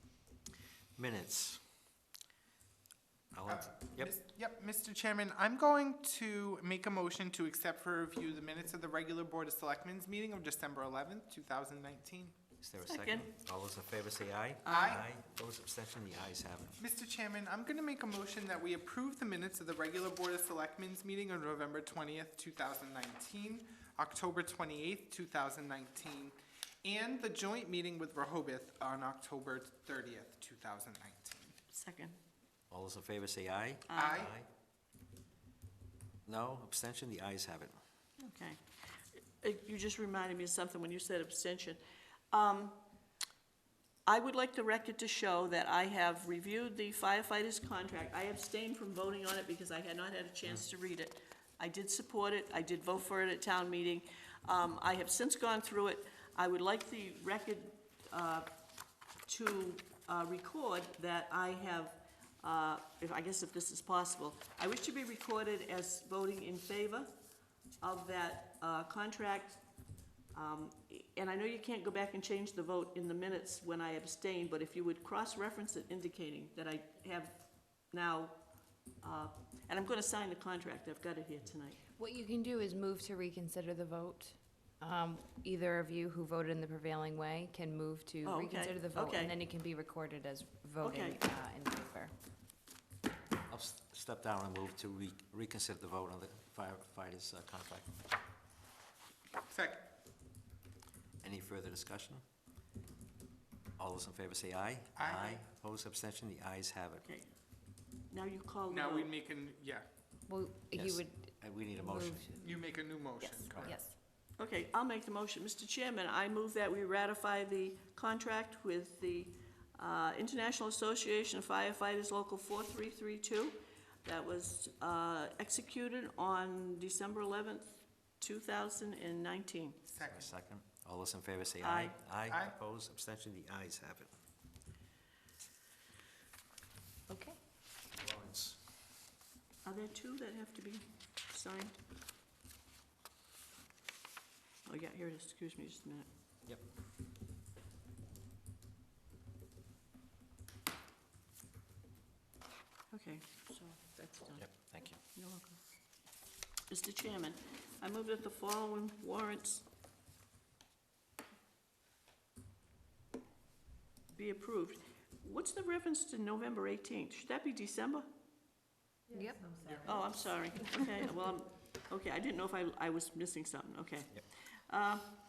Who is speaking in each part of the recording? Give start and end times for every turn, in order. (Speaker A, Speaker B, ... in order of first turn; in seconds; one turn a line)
Speaker A: 1.0-1.6
Speaker A: 3.3-4.1
Speaker B: 3.5-12.3
Speaker A: 12.6-16.8
Speaker C: 12.8-13.3
Speaker C: 14.7-15.0
Speaker B: 14.7-15.1
Speaker B: 16.8-31.5
Speaker C: 31.7-32.2
Speaker A: 32.7-34.5
Speaker C: 33.9-34.3
Speaker B: 33.9-34.3
Speaker A: 36.3-37.8
Speaker C: 38.2-41.8
Speaker C: 42.3-42.8
Speaker C: 44.1-58.5
Speaker C: 59.2-67.1
Speaker C: 67.8-69.6
Speaker C: 70.3-78.4
Speaker C: 79.0-81.8
Speaker D: 82.0-92.1
Speaker C: 88.2-89.4
Speaker C: 90.8-91.2
Speaker A: 93.5-97.9
Speaker B: 99.5-99.9
Speaker A: 101.2-102.2
Speaker A: 103.8-107.0
Speaker B: 105.0-105.4
Speaker C: 107.0-107.3
Speaker C: 108.1-109.1
Speaker B: 108.7-109.8
Speaker D: 110.3-113.9
Speaker A: 110.7-112.3
Speaker B: 112.4-113.8
Speaker A: 113.5-113.8
Speaker C: 114.4-129.8
Speaker B: 129.9-130.3
Speaker A: 130.1-134.1
Speaker C: 131.6-132.0
Speaker B: 132.3-132.6
Speaker D: 137.1-137.4
Speaker A: 137.9-138.6
Speaker C: 139.6-141.8
Speaker C: 144.7-146.1
Speaker C: 152.9-155.6
Speaker A: 154.4-155.0
Speaker C: 156.7-159.7
Speaker C: 164.1-168.1
Speaker D: 169.1-169.8
Speaker C: 169.7-175.2